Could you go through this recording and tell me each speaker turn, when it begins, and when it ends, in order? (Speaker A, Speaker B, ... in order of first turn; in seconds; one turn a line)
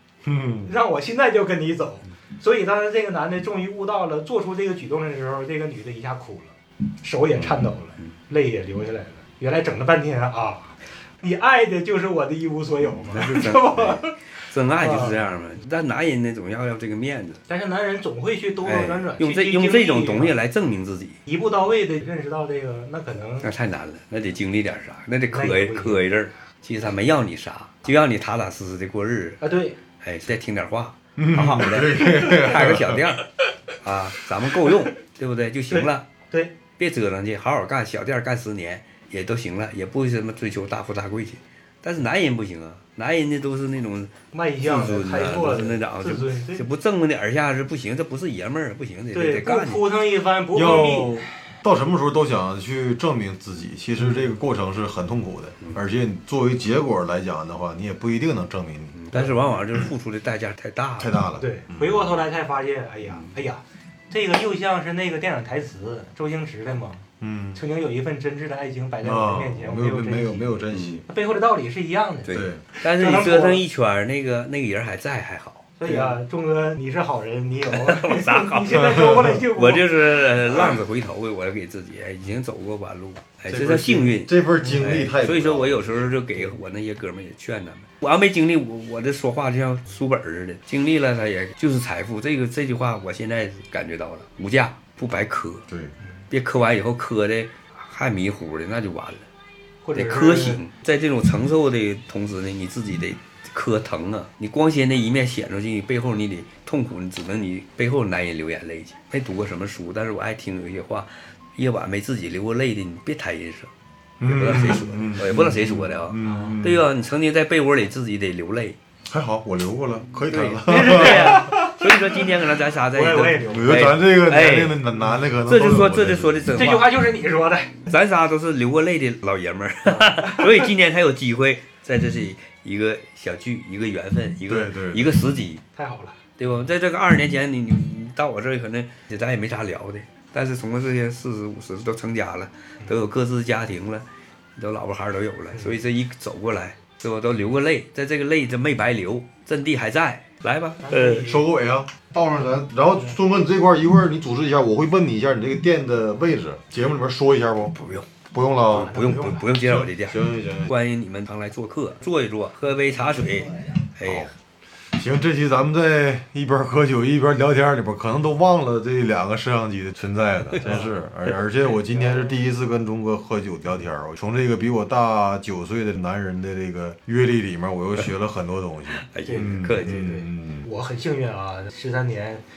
Speaker A: 0.2-0.7
Speaker B: 0.7-15.2
Speaker C: 13.1-17.4
Speaker B: 17.5-20.3
Speaker C: 18.6-21.2
Speaker B: 21.3-23.5
Speaker C: 23.4-29.4
Speaker B: 25.3-26.0
Speaker B: 29.4-29.8
Speaker C: 30.0-33.2
Speaker A: 31.2-33.0
Speaker C: 33.8-36.1
Speaker B: 35.7-36.5
Speaker C: 36.8-49.9
Speaker B: 44.3-46.6
Speaker B: 49.1-51.3
Speaker A: 50.5-59.0
Speaker B: 54.0-54.3
Speaker C: 58.9-61.1
Speaker B: 59.1-59.4
Speaker A: 61.0-62.2
Speaker B: 61.4-73.6
Speaker A: 67.2-67.6
Speaker A: 69.0-71.0
Speaker C: 70.7-71.0
Speaker C: 72.2-76.0
Speaker A: 72.3-72.6
Speaker B: 75.8-80.8
Speaker C: 77.7-95.7
Speaker A: 83.5-86.1
Speaker B: 84.6-85.0
Speaker C: 96.3-99.3
Speaker B: 99.8-100.6
Speaker C: 99.9-113.7
Speaker A: 114.2-116.8
Speaker C: 114.2-118.8
Speaker A: 119.1-121.3
Speaker C: 120.3-124.8
Speaker B: 120.6-123.9
Speaker A: 123.5-126.4
Speaker C: 125.4-127.0
Speaker B: 126.5-127.8
Speaker C: 127.8-135.6
Speaker B: 129.8-130.7
Speaker A: 134.5-135.2
Speaker B: 135.7-136.2
Speaker C: 136.4-151.3
Speaker B: 145.5-145.8
Speaker B: 150.8-151.5
Speaker A: 151.2-157.8
Speaker C: 157.7-158.1
Speaker A: 158.3-160.7
Speaker B: 158.7-159.5
Speaker C: 158.7-164.3
Speaker A: 164.0-164.3
Speaker A: 164.9-180.7
Speaker B: 170.6-170.9
Speaker B: 171.6-172.4
Speaker C: 178.9-180.1
Speaker B: 179.2-182.4